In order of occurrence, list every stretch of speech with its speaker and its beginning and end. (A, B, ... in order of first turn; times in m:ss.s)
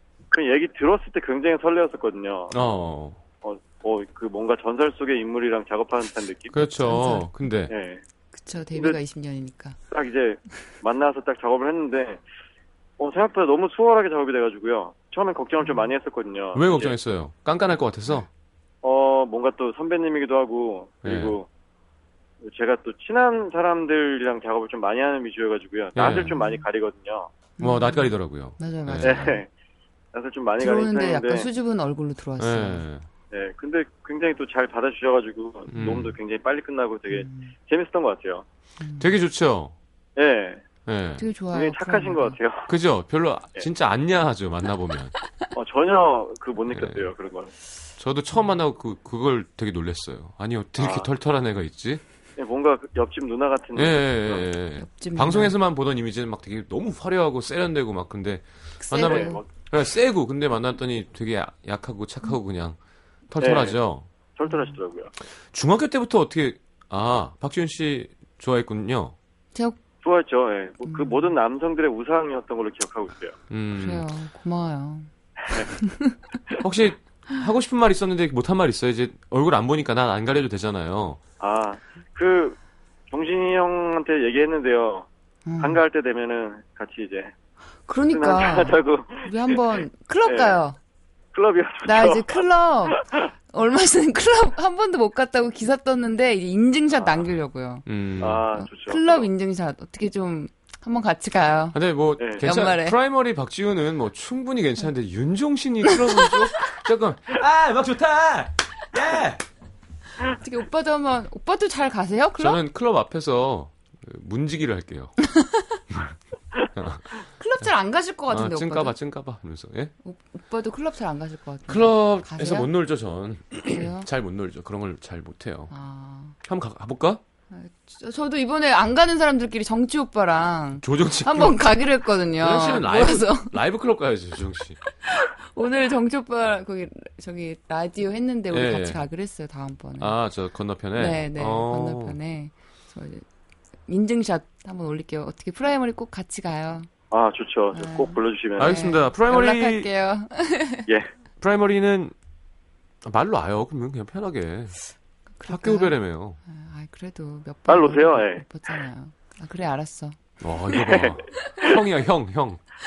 0:00.3-0:02.6 A
0:02.5-0:03.2 B
0:03.4-0:06.6 A
0:06.5-0:07.7 B
0:06.6-0:07.3 C
0:07.7-0:08.0 A
0:08.3-0:09.8 C
0:09.9-0:12.2 A
0:13.0-0:17.0 A
0:16.6-0:18.3 B
0:18.8-0:21.5 A
0:21.0-0:21.4 B
0:22.4-0:27.3 A
0:26.0-0:26.4 B
0:26.3-0:26.6 C
0:27.6-0:29.4 C
0:27.6-0:29.2 B
0:29.0-0:29.5 A
0:30.1-0:31.5 A
0:30.6-0:32.8 C
0:32.4-0:33.1 B
0:33.3-0:38.4 A
0:35.7-0:36.2 B
0:37.1-0:37.5 C
0:38.8-0:39.2 C
0:39.0-0:39.8 B
0:40.2-0:40.6 A
0:40.9-0:41.3 B
0:41.2-0:42.4 C
0:41.5-0:42.7 A
0:42.7-0:45.2 B
0:45.5-0:47.5 A
0:46.7-0:47.1 B
0:48.0-0:52.0 B
0:50.8-0:51.1 A
0:52.4-0:54.5 A
0:53.8-1:02.8 B
0:54.8-0:55.6 C
0:58.8-0:59.4 C
0:59.0-0:59.5 A
1:03.3-1:04.1 B
1:03.4-1:03.8 A
1:04.4-1:05.1 A
1:05.5-1:09.2 B
1:10.0-1:13.4 A
1:10.9-1:11.3 C
1:13.5-1:14.1 B
1:13.8-1:16.2 C
1:16.6-1:21.2 B
1:21.4-1:22.6 A
1:23.1-1:25.1 A
1:25.5-1:25.8 C
1:25.6-1:27.3 A
1:27.9-1:30.8 C
1:28.1-1:30.6 A
1:31.3-1:33.2 A
1:31.8-1:37.9 C
1:37.9-1:38.5 B
1:38.2-1:39.3 A
1:38.5-1:41.8 C
1:41.7-1:49.4 B
1:42.4-1:43.0 C
1:50.2-1:52.6 C
1:52.4-1:55.2 B
1:55.3-1:55.6 C
1:56.8-1:57.1 B
1:57.4-1:59.0 C
1:58.3-1:59.9 B
2:00.0-2:02.7 C
2:01.7-2:05.7 B
2:03.7-2:04.1 C
2:05.7-2:06.4 C
2:06.4-2:07.2 B
2:07.5-2:13.6 C
2:10.8-2:11.8 B
2:12.4-2:14.8 B
2:15.0-2:20.2 C
2:18.5-2:19.0 B
2:20.0-2:22.2 B
2:21.0-2:23.2 C
2:23.9-2:26.9 C
2:27.1-2:28.9 A
2:27.7-2:30.9 C
2:28.6-2:29.9 B
2:31.4-2:32.2 B
2:33.0-2:34.8 B
2:35.4-2:40.2 C
2:35.5-2:36.4 B
2:37.7-2:38.4 A
2:40.4-2:42.6 B
2:40.8-2:41.7 A